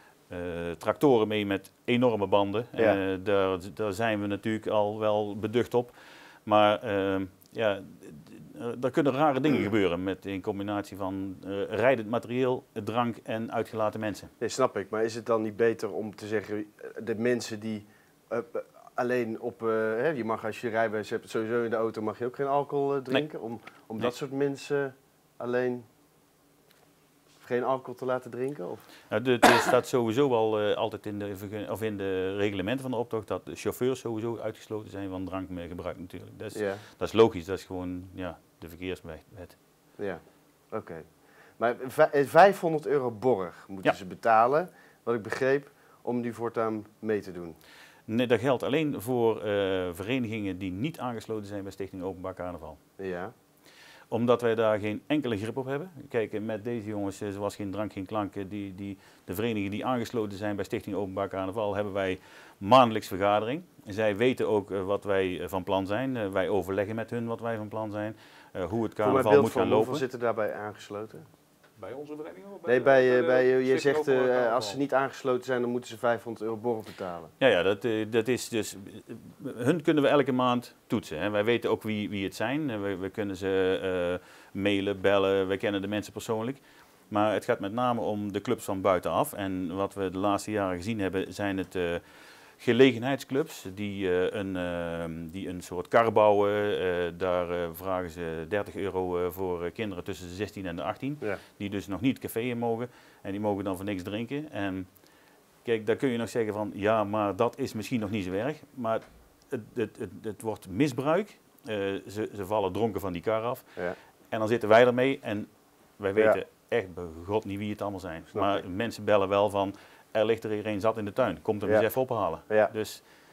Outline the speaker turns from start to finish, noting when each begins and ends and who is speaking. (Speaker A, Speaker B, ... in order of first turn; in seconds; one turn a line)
Speaker A: 0.3-14.3
Speaker B: 14.4-25.9
Speaker B: 27.4-28.9
Speaker A: 29.1-39.6
Speaker B: 36.5-36.8
Speaker B: 40.0-41.1
Speaker B: 41.6-47.6
Speaker A: 48.1-52.8
Speaker B: 53.0-53.3
Speaker A: 54.1-70.0
Speaker B: 69.0-71.2
Speaker C: 71.8-74.8
Speaker B: 72.7-77.3
Speaker A: 77.4-92.0
Speaker A: 92.6-104.9
Speaker A: 105.6-113.7
Speaker A: 114.3-123.0
Speaker B: 118.3-118.6
Speaker B: 121.7-122.7